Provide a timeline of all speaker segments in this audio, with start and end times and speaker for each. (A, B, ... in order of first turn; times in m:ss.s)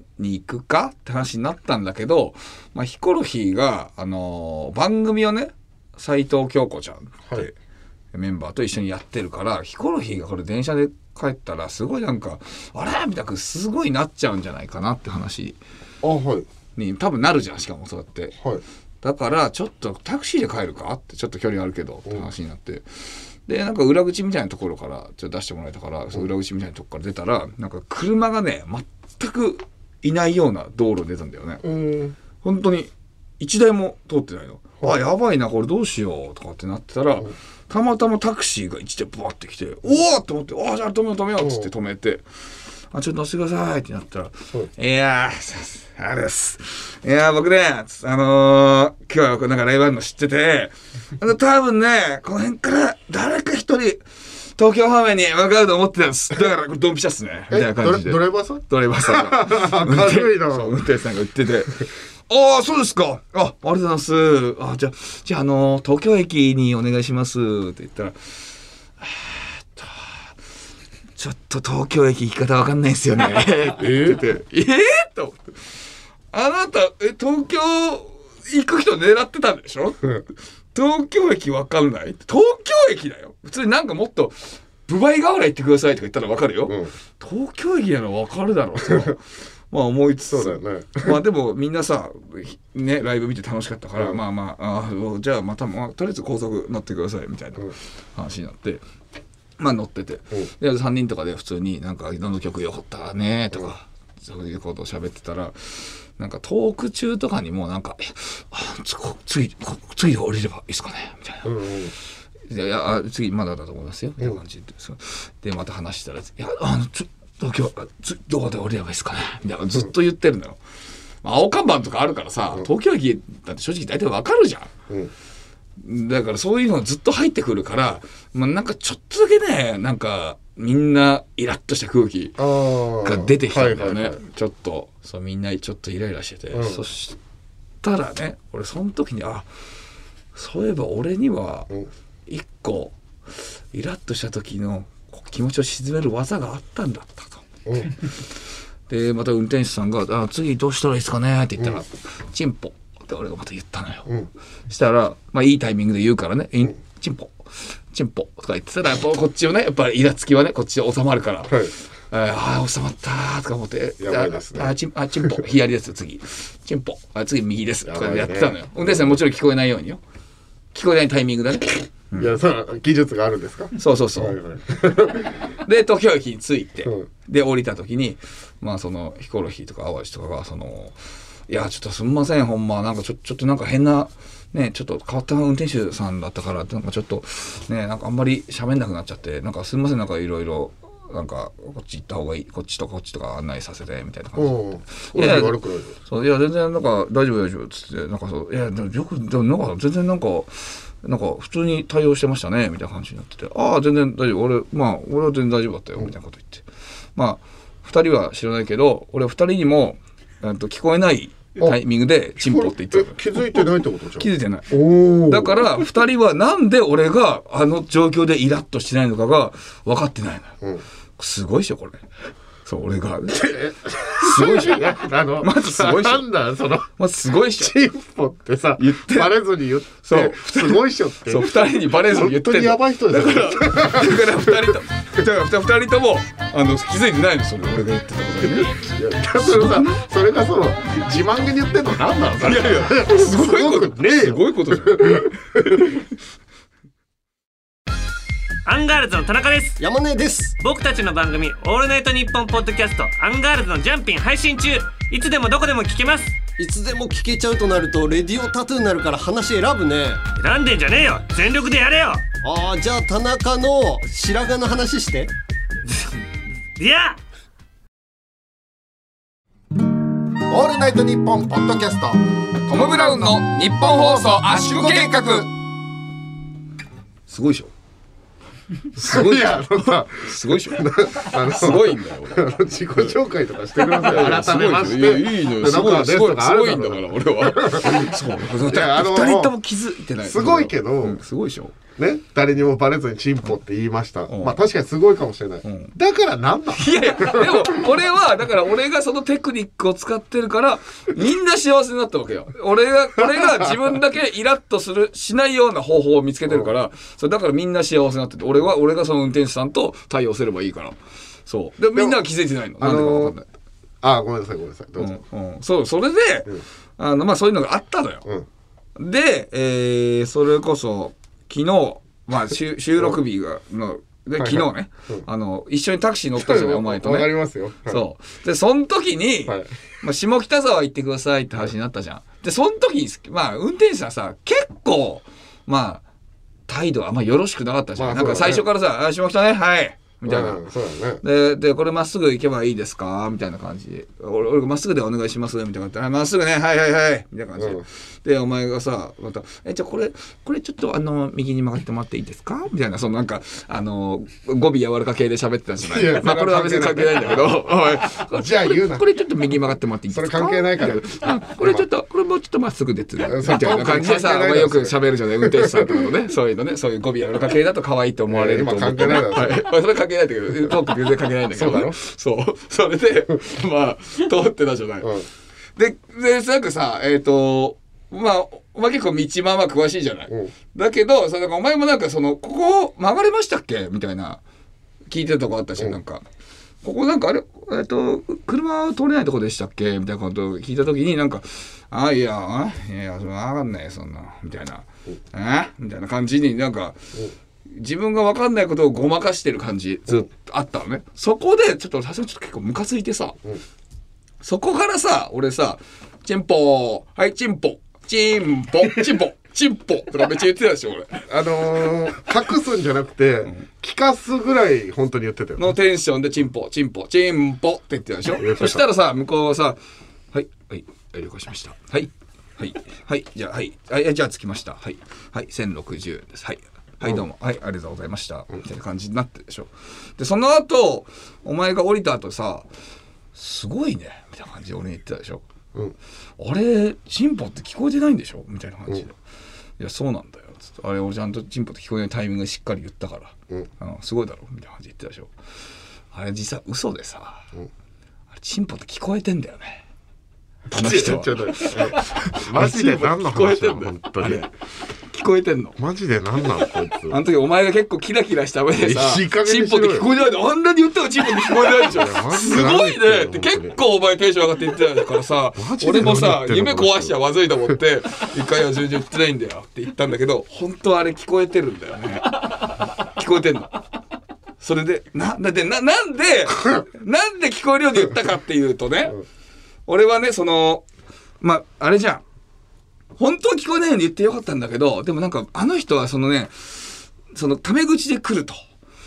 0:00.2-0:07.5 A
0:08.1-0:15.6 A
0:16.0-0:16.5 B
0:16.8-0:18.4 A
0:18.4-0:18.6 B
0:19.0-0:31.6 A
0:31.6-0:32.2 B
0:32.4-0:42.3 A
0:41.4-0:41.7 B
0:42.9-1:08.2 A
0:57.5-1:00.7 B
1:09.0-1:10.3 A
1:11.2-1:15.4 A
1:13.8-1:14.4 B
1:16.3-1:38.8 A
1:26.7-1:26.9 B
1:30.3-1:31.2 B
1:39.6-1:51.5 A
1:51.4-1:51.9 B
1:52.5-2:00.6 A
2:01.2-2:04.7 A
2:05.8-2:12.4 A
2:12.4-2:14.2 B
2:13.0-2:17.2 A
2:16.5-2:16.8 B
2:17.8-2:19.5 A
2:20.4-2:21.7 A
2:22.3-2:28.1 A
2:28.9-2:34.2 A
2:34.7-2:50.0 A
2:44.0-2:44.7 B
2:47.9-2:49.2 B
2:50.7-2:52.3 A
2:52.2-2:55.4 B
2:53.8-2:54.4 A
2:55.6-3:33.6 A
3:14.4-3:16.0 B
3:32.4-3:35.7 B
3:34.2-3:34.7 A
3:35.3-3:40.5 A
3:41.2-3:42.0 A
3:42.6-3:43.6 A
3:43.3-3:46.9 B
3:44.1-3:46.3 A
3:47.0-3:47.8 A
3:47.6-3:54.8 B
3:48.8-3:58.9 A
3:58.6-4:06.0 B
3:59.4-4:00.0 A
4:02.4-4:05.3 A
4:08.7-4:09.8 C
4:09.8-4:10.6 D
4:10.6-4:16.4 C
4:16.6-4:20.3 D
4:20.4-4:22.2 C
4:22.4-4:25.3 D
4:26.8-4:27.2 C
4:30.5-4:33.4 B
4:32.7-4:35.5 A
4:34.5-4:35.5 B
4:37.3-4:37.7 A
4:38.9-4:42.5 A
4:39.0-4:49.5 B
4:43.8-4:51.8 A
4:50.2-4:51.2 B
4:52.0-4:57.9 B
4:54.3-4:54.6 A
4:55.6-4:55.9 A
4:56.7-5:13.5 A
5:12.8-5:13.4 B
5:14.0-5:15.2 B
5:15.0-5:18.2 A
5:19.0-5:27.3 A
5:24.4-5:25.3 B
5:26.4-5:28.0 B
5:27.9-5:36.0 A
5:29.5-5:29.7 B
5:36.7-5:40.6 A
5:38.0-5:38.6 B
5:40.2-5:41.2 B
5:41.2-6:15.1 A
5:47.6-5:47.8 B
5:55.8-5:57.6 B
5:58.3-5:59.0 B
6:00.1-6:01.8 B
6:03.2-6:06.1 B
6:08.3-6:09.6 B
6:11.5-6:12.0 B
6:15.0-6:15.3 B
6:15.8-6:24.4 A
6:25.1-6:26.2 A
6:26.8-6:37.1 A
6:37.7-6:43.4 A
6:44.4-6:51.3 A
6:51.3-6:55.7 B
6:55.6-6:59.8 A
6:58.3-6:58.8 B
7:00.3-7:12.7 A
7:13.3-7:15.4 A
7:16.4-7:19.2 A
7:19.8-7:25.3 A
7:26.1-7:27.5 A
7:28.3-7:29.8 A
7:30.7-7:34.4 B
7:30.7-7:35.8 A
7:35.8-7:37.2 B
7:37.1-7:53.8 A
7:38.8-7:40.1 B
7:41.4-7:43.8 B
7:45.6-7:47.2 B
7:54.6-7:59.2 A
7:59.9-8:00.8 A
8:01.4-8:02.2 A
8:03.2-8:08.6 A